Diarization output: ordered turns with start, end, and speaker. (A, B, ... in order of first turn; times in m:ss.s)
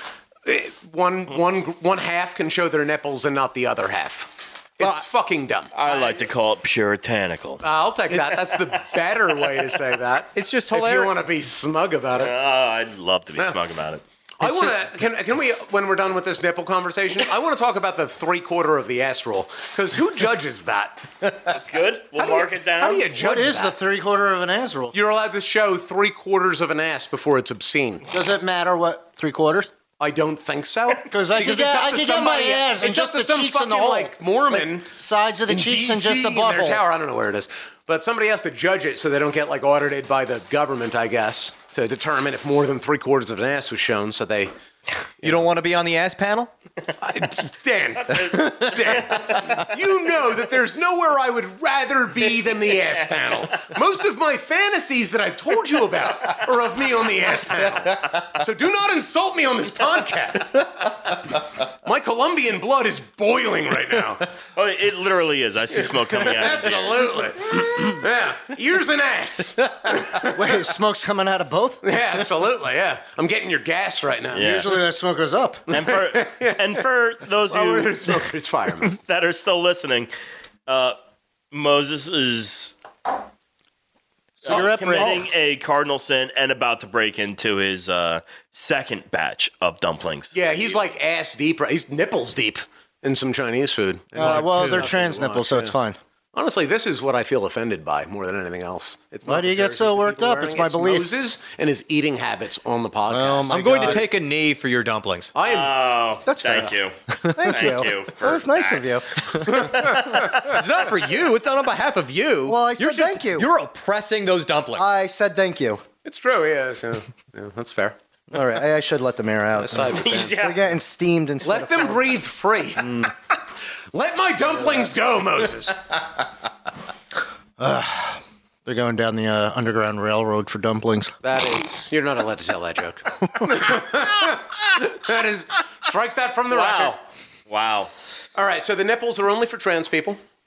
0:00.4-0:06.2 A
0:04.8-0:05.0 B
0:05.7-0:08.8 C
0:07.6-0:12.3 A
0:10.3-0:11.1 B
0:12.1-0:14.0 C
0:14.4-0:21.5 A
0:14.4-0:14.7 B
0:21.5-0:23.1 C
0:22.2-0:23.8 A
0:23.1-0:24.9 D
0:24.9-0:28.1 A
0:28.1-0:29.7 D
0:30.0-0:34.9 A
0:31.0-0:36.8 D
0:35.5-0:44.5 A
0:45.2-0:46.5 B
0:47.0-1:04.3 A
0:48.1-0:49.7 C
0:48.3-0:48.6 B
0:52.7-0:53.0 C
1:04.5-1:07.1 C
1:05.7-1:10.6 A
1:10.2-1:12.3 D
1:11.8-1:14.5 A
1:14.3-1:15.6 D
1:14.3-1:14.8 C
1:15.7-1:20.1 C
1:15.7-1:16.8 A
1:17.5-1:19.0 A
1:20.7-1:21.0 C
1:21.5-1:22.7 C
1:24.4-1:30.3 C
1:24.4-1:25.3 D
1:24.9-1:25.2 B
1:30.3-1:35.7 A
1:34.1-1:36.0 D
1:36.3-1:44.0 A
1:39.2-1:41.1 D
1:43.1-1:44.0 D
1:43.5-1:45.3 B
1:45.3-1:46.0 A
1:45.4-1:50.4 C
1:46.2-1:46.7 D
1:47.2-1:49.8 D
1:49.5-1:50.4 A
1:49.9-1:54.9 B
1:52.4-1:53.5 D
1:54.8-1:55.8 D
1:56.0-1:58.0 A
1:58.3-2:02.2 D
1:59.6-2:00.4 A
1:59.9-2:00.6 C
2:01.4-2:03.1 A
2:02.8-2:03.1 D
2:03.9-2:06.0 A
2:07.6-2:11.2 D
2:11.2-2:17.0 A
2:16.5-2:17.9 C
2:18.3-2:20.2 A